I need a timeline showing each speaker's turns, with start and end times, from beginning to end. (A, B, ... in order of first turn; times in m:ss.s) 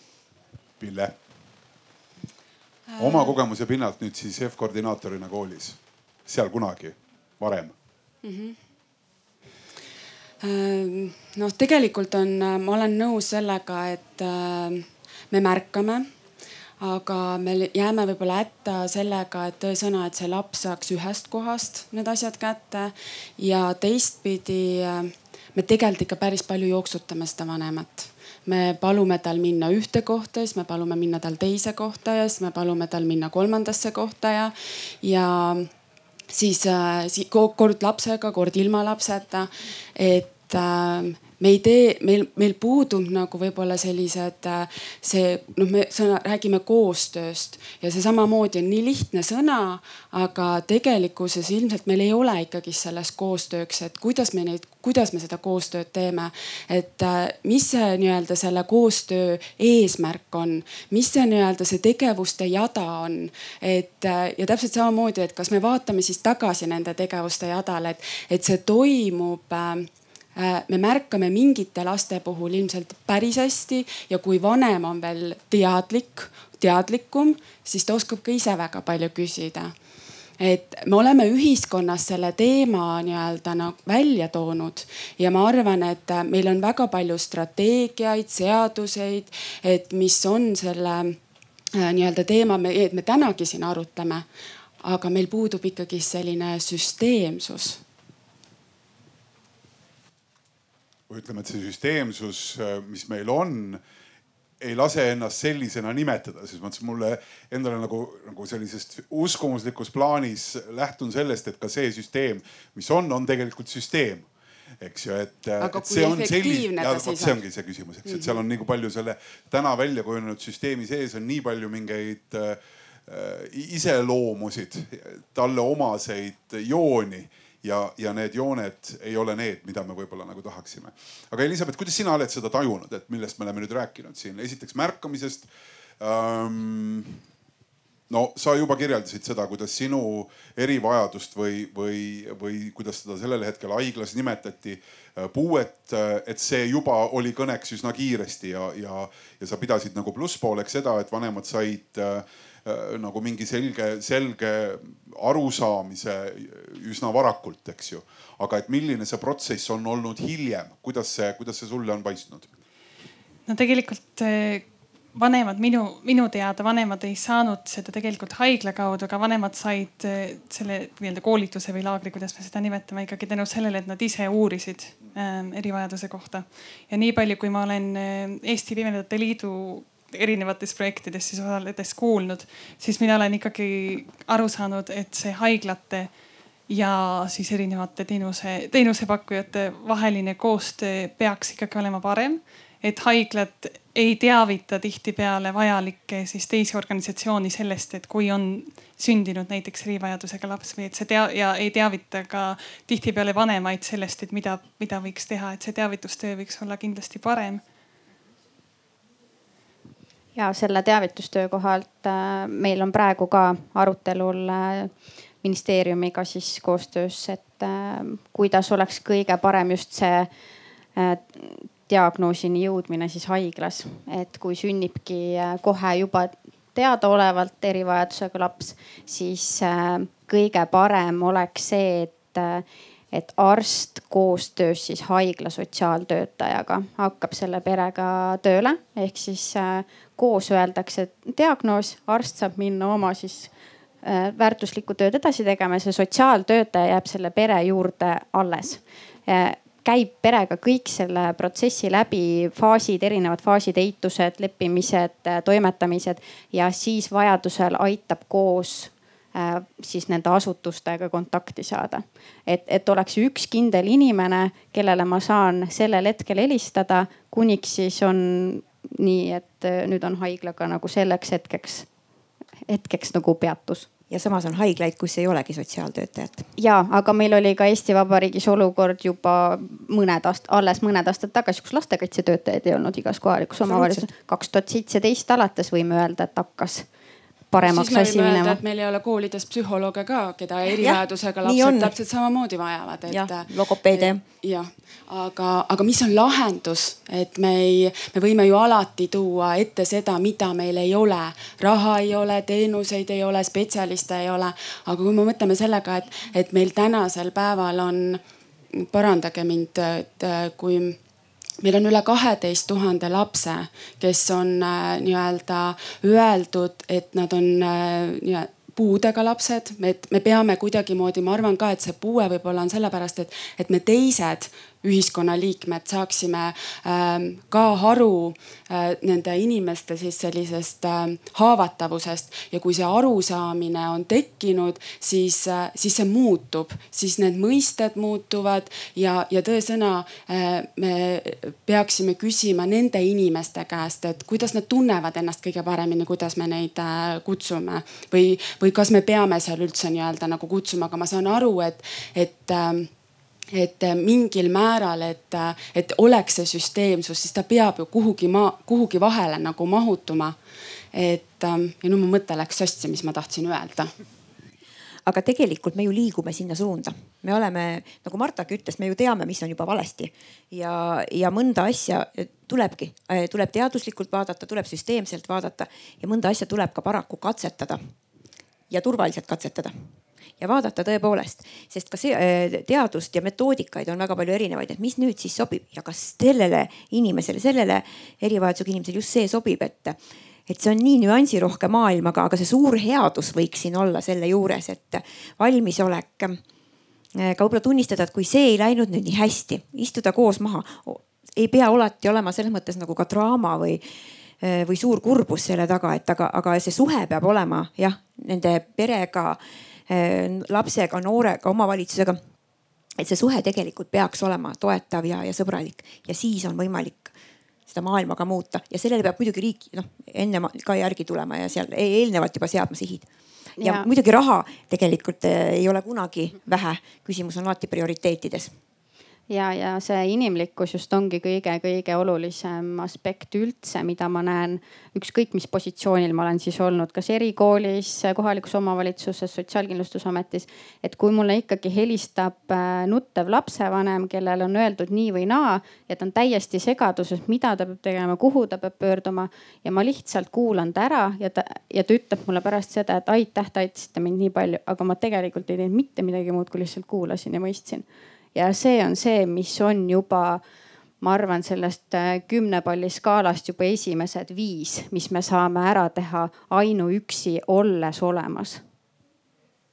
0:00.8-0:01.2 A
0:02.9-0:03.4 B
0:03.0-0:07.7 A
0:08.2-0:08.6 B
0:10.4-0:16.0 B
0:16.8-0:35.7 B
0:36.3-1:19.7 B
1:20.4-1:31.2 B
1:31.8-1:34.2 B
1:34.8-1:37.8 B
1:41.1-1:43.8 A
1:44.6-1:54.3 A
1:54.8-2:15.5 A
1:55.6-1:57.4 B
1:58.0-1:58.4 B
2:16.0-2:17.2 A
2:18.1-2:42.5 A
2:43.5-3:06.1 C
3:06.7-3:27.6 C
3:30.3-3:34.9 D
3:35.4-3:40.3 D
3:41.0-4:03.5 D
4:04.0-4:31.9 D
4:32.7-4:33.9 D
4:34.1-4:36.4 E
4:36.6-4:46.8 D
4:43.6-4:44.1 E
4:47.5-4:48.6 D
4:47.6-5:08.2 B
4:50.8-4:51.9 E
4:53.1-4:54.2 E
5:08.7-5:11.0 B
5:11.6-5:52.9 B
5:53.5-6:00.4 B
6:00.9-6:03.9 B
6:05.0-6:17.8 E
6:18.7-6:19.7 E
6:20.4-6:30.0 E
6:30.5-6:36.4 E
6:37.2-6:43.8 E
6:44.4-6:52.2 E
6:53.0-6:57.1 E
6:57.7-7:03.0 E
7:03.6-7:03.9 D
7:03.6-7:08.5 E
7:09.3-7:40.4 D
7:41.0-7:48.6 D